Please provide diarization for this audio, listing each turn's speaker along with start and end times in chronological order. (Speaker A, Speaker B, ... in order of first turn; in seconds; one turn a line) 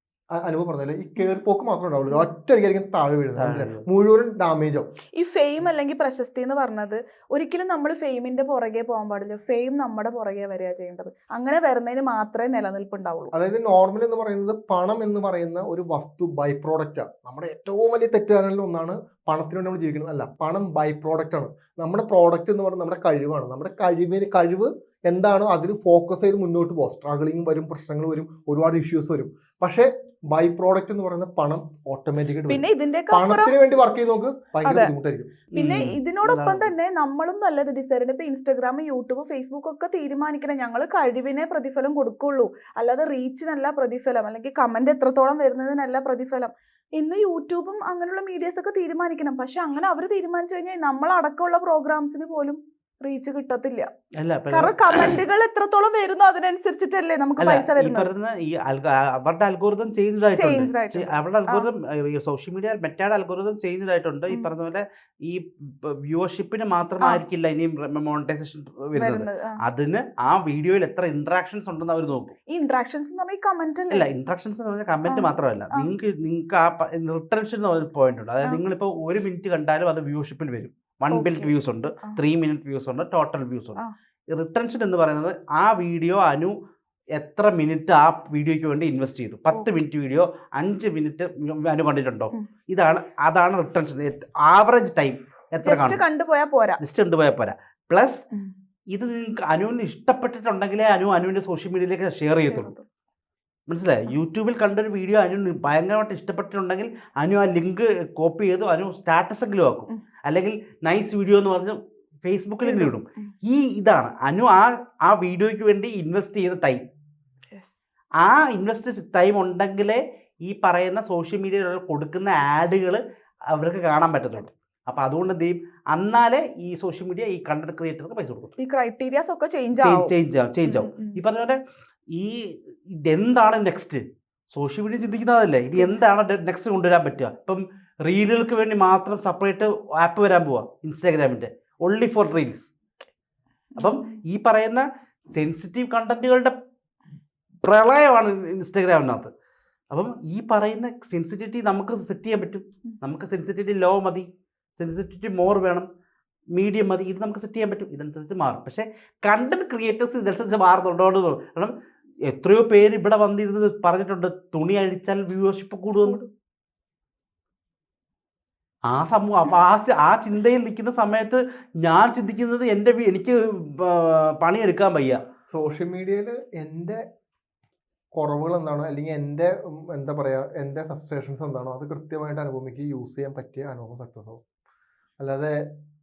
Speaker A: 0.3-4.8
Speaker B: 3.4-3.8
Speaker C: 5.2-13.3
Speaker A: 13.3-35.3
Speaker C: 32.5-33.5
Speaker C: 34.6-34.9
Speaker C: 35.5-53.9
Speaker B: 35.5-36.7
Speaker B: 54.2-55.2
Speaker C: 54.5-58.1
Speaker B: 57.4-72.3
Speaker C: 60.4-61.7
Speaker C: 69.0-69.6
Speaker C: 72.5-74.1
Speaker B: 73.9-83.8
Speaker C: 75.1-75.9
Speaker C: 81.1-82.2
Speaker B: 84.3-86.5
Speaker B: 87.2-96.0
Speaker C: 95.6-96.8
Speaker B: 96.8-98.2
Speaker B: 98.9-102.7
Speaker C: 102.4-102.8
Speaker B: 103.7-116.8
Speaker C: 112.6-113.3
Speaker B: 118.2-123.0
Speaker B: 123.5-128.5
Speaker C: 128.6-130.1
Speaker B: 129.8-131.6
Speaker C: 130.6-131.2
Speaker B: 132.1-142.7
Speaker C: 143.7-144.2
Speaker B: 143.8-146.5
Speaker B: 147.6-149.3
Speaker B: 149.9-154.3
Speaker B: 154.8-155.9
Speaker B: 156.5-161.7
Speaker B: 162.3-166.2
Speaker C: 166.0-166.3
Speaker B: 168.9-175.2
Speaker A: 175.5-177.0
Speaker A: 178.2-184.4
Speaker A: 185.2-185.6